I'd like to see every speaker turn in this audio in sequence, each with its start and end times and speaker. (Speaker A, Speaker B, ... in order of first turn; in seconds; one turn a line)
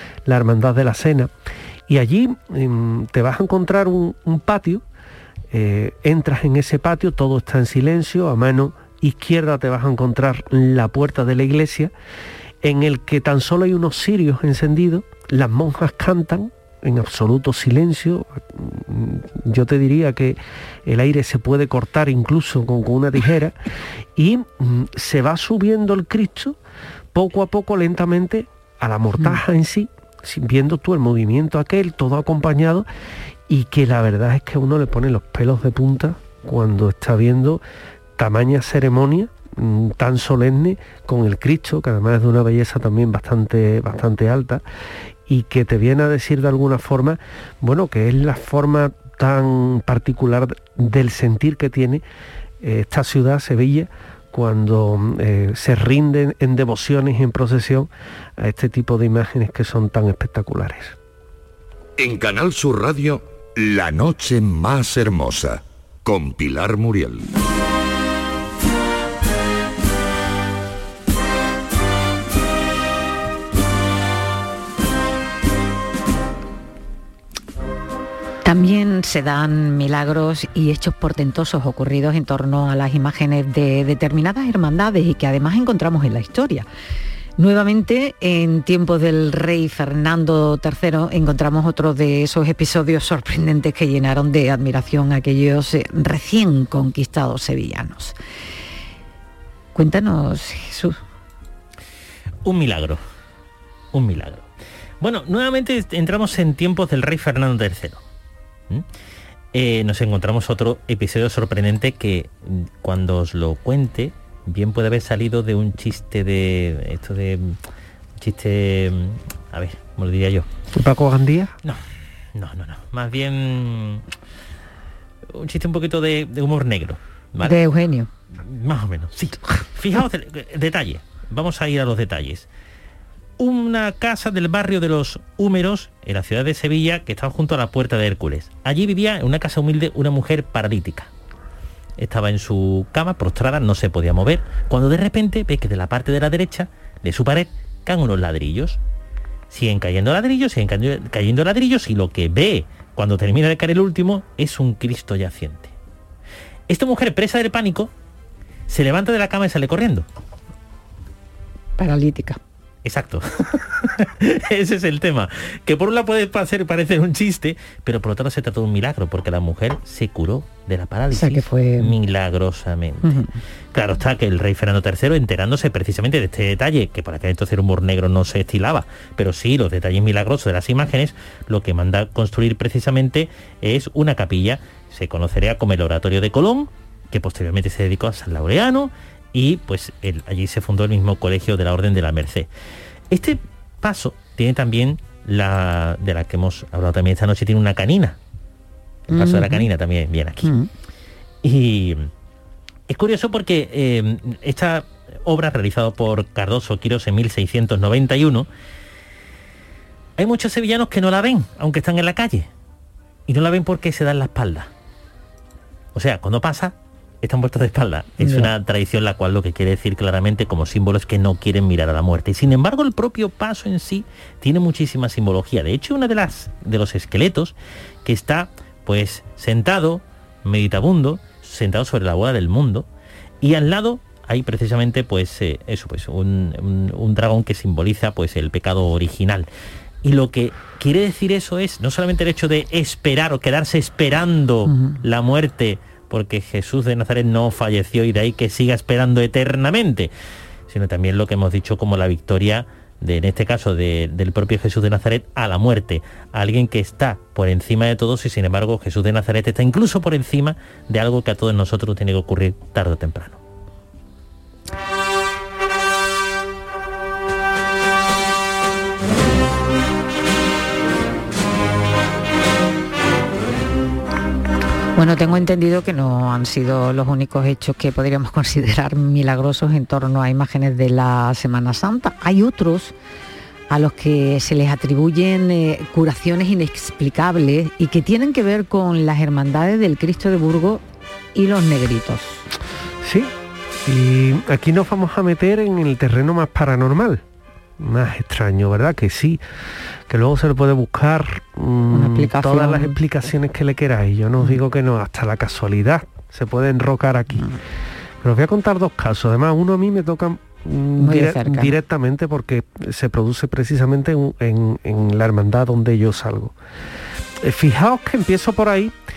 Speaker A: 0.2-1.3
Speaker A: 1.9-4.8
Speaker A: 5.5-11.9
Speaker A: 12.6-23.6
Speaker A: 24.1-26.6
Speaker A: 27.1-32.9
Speaker A: 33.5-37.6
Speaker A: 38.2-44.6
Speaker A: 45.3-52.0
Speaker A: 52.6-61.0
Speaker B: 62.0-67.3
Speaker C: 78.4-86.7
Speaker C: 87.4-98.1
Speaker C: 99.8-101.0
Speaker D: 102.4-103.0
Speaker D: 103.9-104.5
Speaker D: 105.0-108.0
Speaker D: 109.5-117.6
Speaker D: 118.2-120.5
Speaker A: 120.7-121.5
Speaker D: 122.3-124.1
Speaker D: 125.3-127.6
Speaker C: 127.4-128.1
Speaker D: 128.4-132.5
Speaker D: 133.4-141.1
Speaker D: 142.0-148.8
Speaker D: 149.5-155.7
Speaker D: 156.7-157.9
Speaker D: 158.7-160.1
Speaker C: 161.8-162.4
Speaker D: 162.8-192.5
Speaker C: 171.1-172.0
Speaker C: 173.0-173.3
Speaker D: 193.1-198.2
Speaker C: 199.1-199.7
Speaker D: 199.1-200.5
Speaker C: 200.4-200.7
Speaker D: 201.4-202.1
Speaker D: 202.9-208.5
Speaker D: 210.2-212.5
Speaker D: 213.3-214.7
Speaker D: 215.9-232.9
Speaker C: 218.2-218.5
Speaker D: 233.4-239.5
Speaker D: 240.0-250.1
Speaker C: 244.7-245.0
Speaker D: 250.7-263.4
Speaker C: 275.0-282.9
Speaker C: 283.7-290.8
Speaker C: 291.4-292.4
Speaker A: 293.0-293.3
Speaker A: 293.9-297.2
Speaker A: 297.8-299.4
Speaker A: 300.1-307.5
Speaker C: 301.9-303.0
Speaker A: 308.2-316.6
Speaker C: 311.0-311.7
Speaker A: 317.4-319.0